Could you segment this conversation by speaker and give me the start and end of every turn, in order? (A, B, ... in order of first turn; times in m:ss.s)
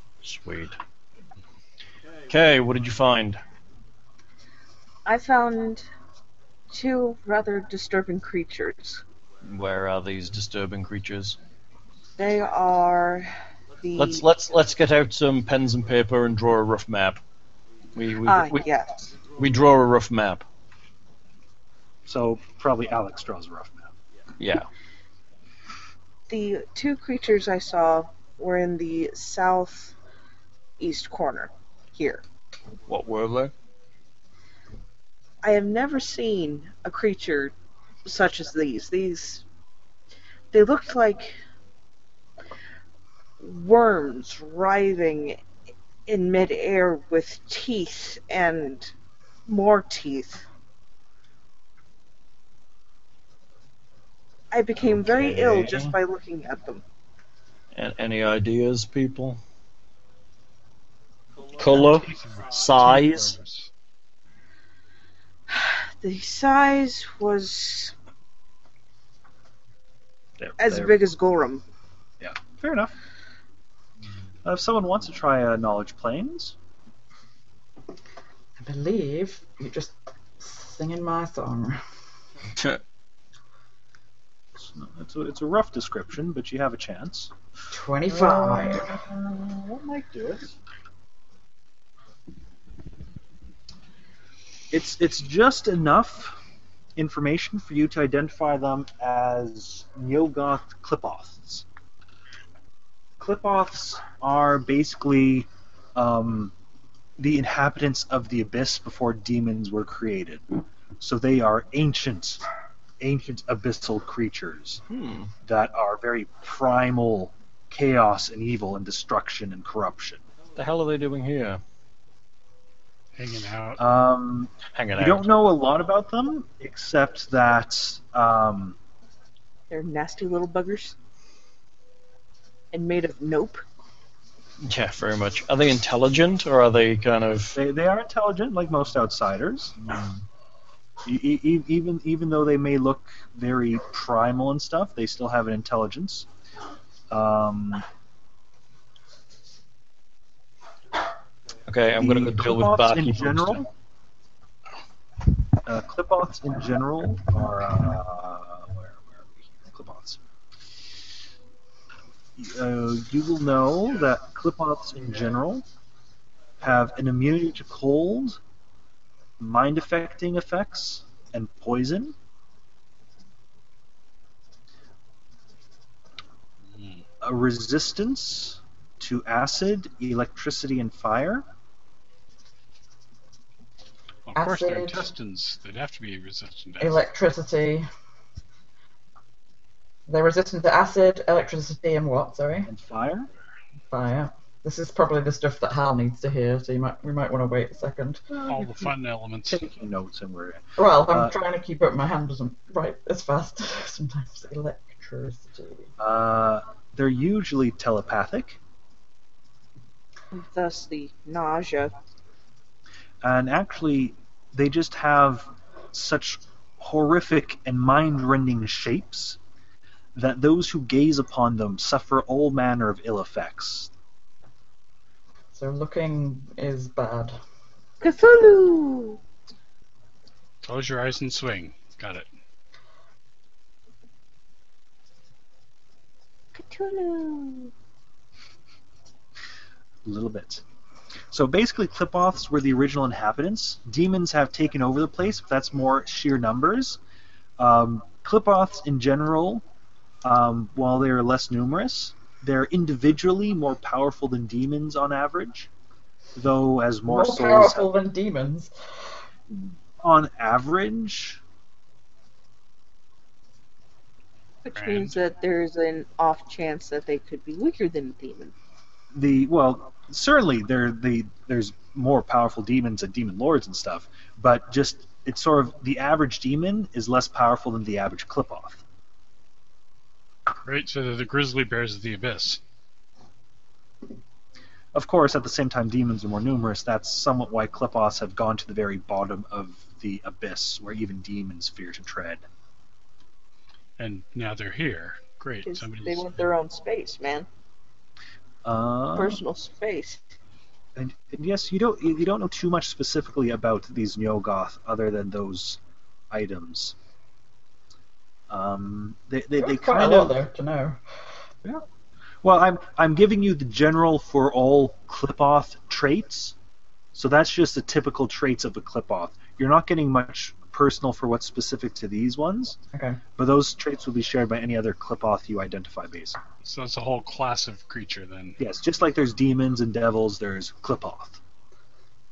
0:00.2-0:00.8 A
0:02.3-0:03.4 A
0:05.0-0:05.9 B
0:06.7-0:09.0 B
0:09.4-0:11.4 A
0:12.2-0:14.2 B
0:14.0-0:17.2 A
0:18.0-0:18.6 A
0:18.2-0:19.0 B
0:19.2-0:20.4 A
0:22.1-0:23.9 C
0:24.4-0:24.7 A
0:26.3-0:29.9 B
0:30.8-0:32.2 B
0:32.9-0:33.5 A
0:35.4-0:37.5 B
0:38.0-0:39.4 B
0:40.5-0:41.4 B
0:43.4-0:45.4 B
0:46.1-0:48.9 B
0:49.5-0:50.4 B
0:54.5-0:56.8 B
0:54.8-0:56.0 A
0:57.7-0:59.4 A
1:01.6-1:03.4 A
1:01.6-1:03.7 D
1:05.5-1:07.9 B
1:10.4-1:11.0 C
1:10.6-1:11.6 B
1:12.2-1:12.9 C
1:14.4-1:16.6 C
1:18.6-1:21.8 E
1:24.6-1:27.3 C
1:27.7-1:28.9 E
1:28.1-1:30.5 C
1:34.7-1:36.4 C
1:37.0-1:41.7 C
1:43.2-1:46.5 C
1:47.2-1:50.4 C
1:51.0-1:52.4 C
1:53.0-1:54.8 C
1:54.9-1:55.3 A
1:55.4-2:00.2 C
2:00.6-2:01.6 A
2:03.2-2:03.8 D
2:03.8-2:08.8 C
2:04.7-2:05.3 A
2:09.7-2:11.0 B
2:12.7-2:13.6 B
2:14.6-2:17.6 A
2:17.6-2:19.8 C
2:21.0-2:26.3 C
2:27.1-2:27.8 C
2:31.7-2:33.6 A
2:31.9-2:33.7 C
2:35.6-2:40.2 C
2:42.4-2:45.6 C
2:46.6-2:48.4 C
2:49.4-2:52.2 C
2:56.7-2:57.0 D
2:57.2-3:01.5 C
3:04.3-3:07.1 D
3:04.4-3:05.1 E
3:06.8-3:07.9 E
3:10.1-3:12.7 E
3:12.7-3:13.3 C
3:13.9-3:18.2 E
3:18.3-3:18.9 C
3:18.5-3:19.6 D
3:19.5-3:21.4 C
3:20.8-3:25.9 E
3:26.0-3:28.6 C
3:30.3-3:31.9 B
3:33.2-3:39.4 C
3:40.2-3:43.9 C
3:45.5-3:47.4 E
3:48.0-3:49.2 B
3:50.6-3:52.3 D
3:56.5-3:57.7 B
4:00.0-4:00.6 C
4:01.3-4:07.0 C
4:07.6-4:09.6 C
4:10.2-4:15.7 C
4:16.4-4:17.9 C
4:17.1-4:18.7 E
4:20.0-4:21.4 C
4:24.6-4:28.5 B
4:24.8-4:25.2 D
4:29.1-4:38.8 C
4:40.6-4:42.6 D
4:44.9-4:52.4 C
4:54.0-4:56.3 D
4:55.6-4:57.5 B
4:58.6-4:59.4 C
4:59.2-5:00.2 B
5:01.0-5:05.8 C
5:06.3-5:07.0 C
5:08.5-5:10.4 C
5:09.6-5:11.0 E
5:12.4-5:16.6 C
5:17.1-5:22.8 C
5:22.9-5:23.2 E
5:23.4-5:26.4 C
5:26.6-5:28.6 D
5:28.6-5:31.4 C